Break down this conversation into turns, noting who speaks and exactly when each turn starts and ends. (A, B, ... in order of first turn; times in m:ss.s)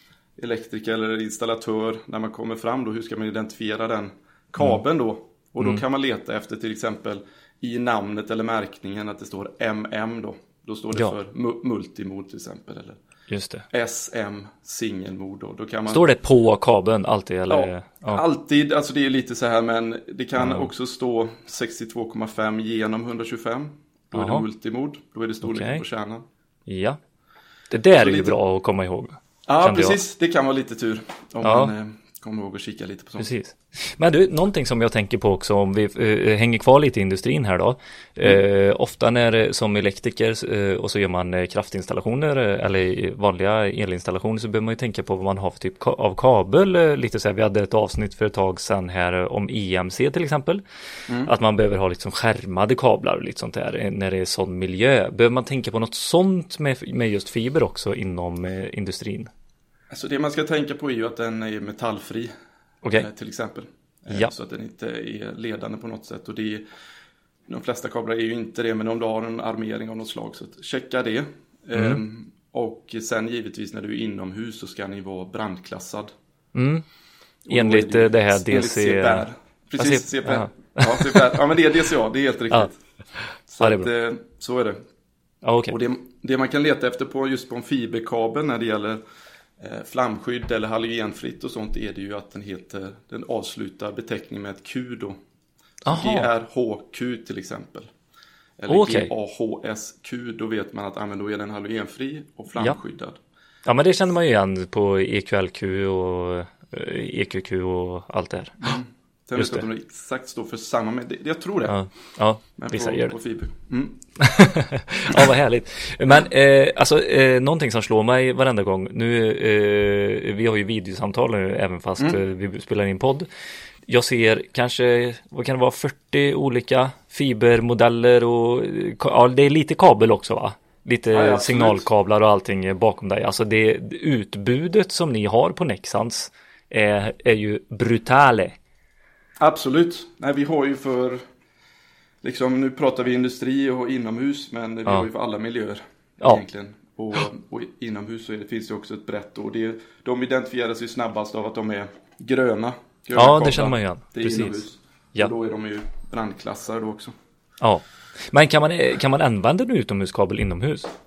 0:00.4-0:13.0 A
0:13.3-0:13.6 B
0:13.7-0:16.1 A
0:15.9-0:18.2 B
0:17.5-0:26.2 A
0:20.4-0:20.7 B
0:24.2-0:24.4 B
0:25.4-0:25.8 B
0:26.7-0:27.0 B
0:27.7-0:30.0 B
0:28.0-0:28.4 A
0:29.5-0:33.3 A
0:31.4-0:31.7 B
0:33.2-0:50.6 B
0:51.3-0:59.3 B
0:59.9-1:02.3 A
1:03.0-1:06.6 A
1:07.5-1:16.1 A
1:11.8-1:12.0 B
1:16.6-1:16.8 B
1:17.5-1:22.8 A
1:17.5-1:21.2 B
1:23.5-1:24.8 A
1:23.6-1:23.9 B
1:25.4-1:25.8 B
1:25.7-1:29.0 A
1:29.6-1:35.2 A
1:35.8-1:36.3 B
1:35.9-1:37.9 A
1:38.6-1:43.2 A
1:38.7-1:39.1 B
1:43.7-1:48.7 B
1:48.6-1:51.8 A
1:49.4-1:49.6 B
1:51.7-1:53.1 B
1:52.6-1:54.0 A
1:54.2-2:03.3 B
2:03.9-2:18.6 B
2:11.1-2:11.9 A
2:19.4-2:21.2 A
2:22.2-2:37.1 A
2:33.2-2:34.6 B
2:37.6-2:40.9 B